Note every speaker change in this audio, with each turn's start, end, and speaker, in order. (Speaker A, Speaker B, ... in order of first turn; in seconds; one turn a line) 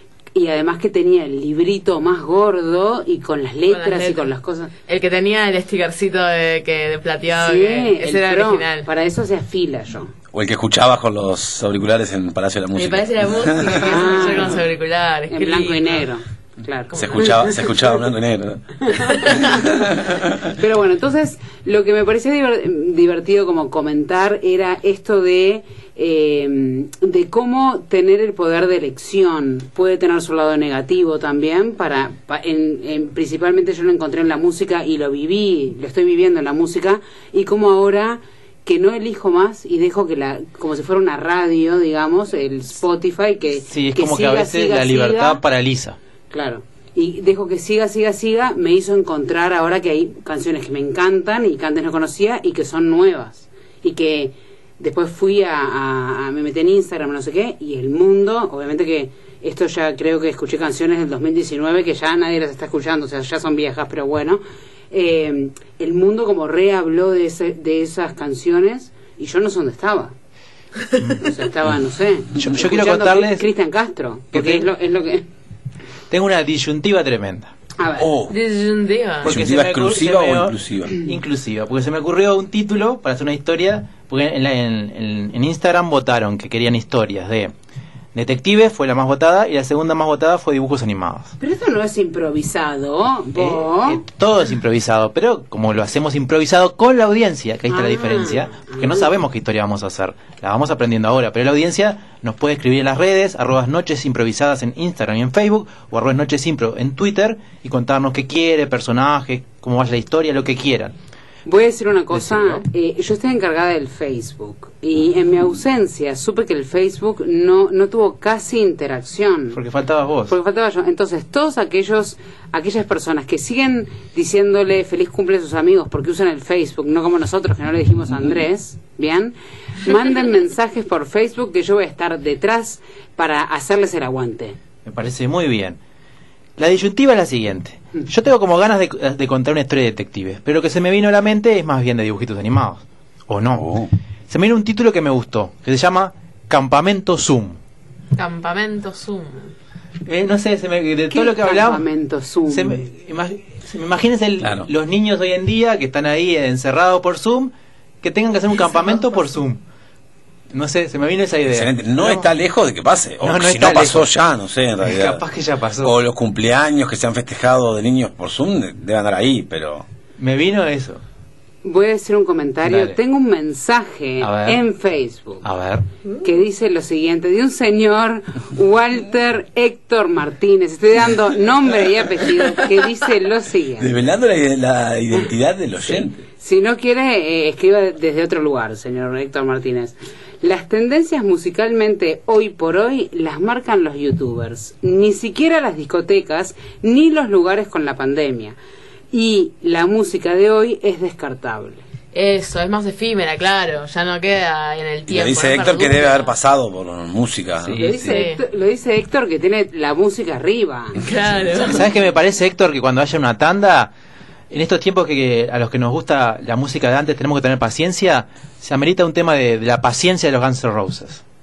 Speaker A: 0.3-4.7
Speaker B: 3.7-8.9
Speaker A: 7.3-10.1
Speaker C: 10.3-14.1
Speaker B: 12.7-16.1
Speaker A: 13.8-14.6
Speaker A: 15.3-17.5
Speaker B: 16.9-17.5
Speaker C: 16.9-20.5
Speaker B: 19.2-19.6
Speaker A: 20.5-45.4
Speaker D: 43.7-46.0
Speaker A: 46.3-70.1
Speaker D: 71.0-71.3
Speaker A: 71.2-75.2
Speaker D: 72.3-73.5
Speaker D: 74.3-74.7
Speaker D: 76.1-77.5
Speaker A: 77.8-78.1
Speaker C: 78.0-78.3
Speaker B: 78.3-79.3
Speaker C: 79.2-81.1
Speaker D: 79.2-87.5
Speaker D: 88.1-91.3
Speaker A: 91.4-94.0
Speaker D: 93.3-110.9
Speaker A: 97.7-99.1
Speaker A: 111.5-119.6
Speaker D: 112.1-112.6
Speaker D: 119.5-120.3
Speaker A: 120.3-134.6
Speaker D: 134.8-135.8
Speaker D: 136.6-143.7
Speaker C: 143.5-143.9
Speaker D: 144.3-147.6
Speaker B: 148.2-149.5
Speaker D: 150.1-151.8
Speaker A: 151.1-152.9
Speaker D: 152.5-159.6
Speaker C: 154.4-154.7
Speaker D: 160.5-162.3
Speaker C: 161.5-165.2
Speaker D: 163.2-164.1
Speaker D: 164.8-165.9
Speaker C: 165.8-169.8
Speaker D: 170.2-171.0
Speaker A: 171.6-175.4
Speaker D: 172.6-173.0
Speaker D: 174.2-174.6
Speaker D: 175.4-175.8
Speaker A: 176.2-184.0
Speaker C: 183.8-186.2
Speaker A: 186.3-198.6
Speaker A: 199.1-201.8
Speaker B: 202.1-206.3
Speaker C: 205.1-207.9
Speaker D: 207.6-208.1
Speaker A: 207.7-211.0
Speaker B: 208.0-208.4
Speaker B: 211.0-211.8
Speaker D: 211.6-213.9
Speaker D: 214.5-221.2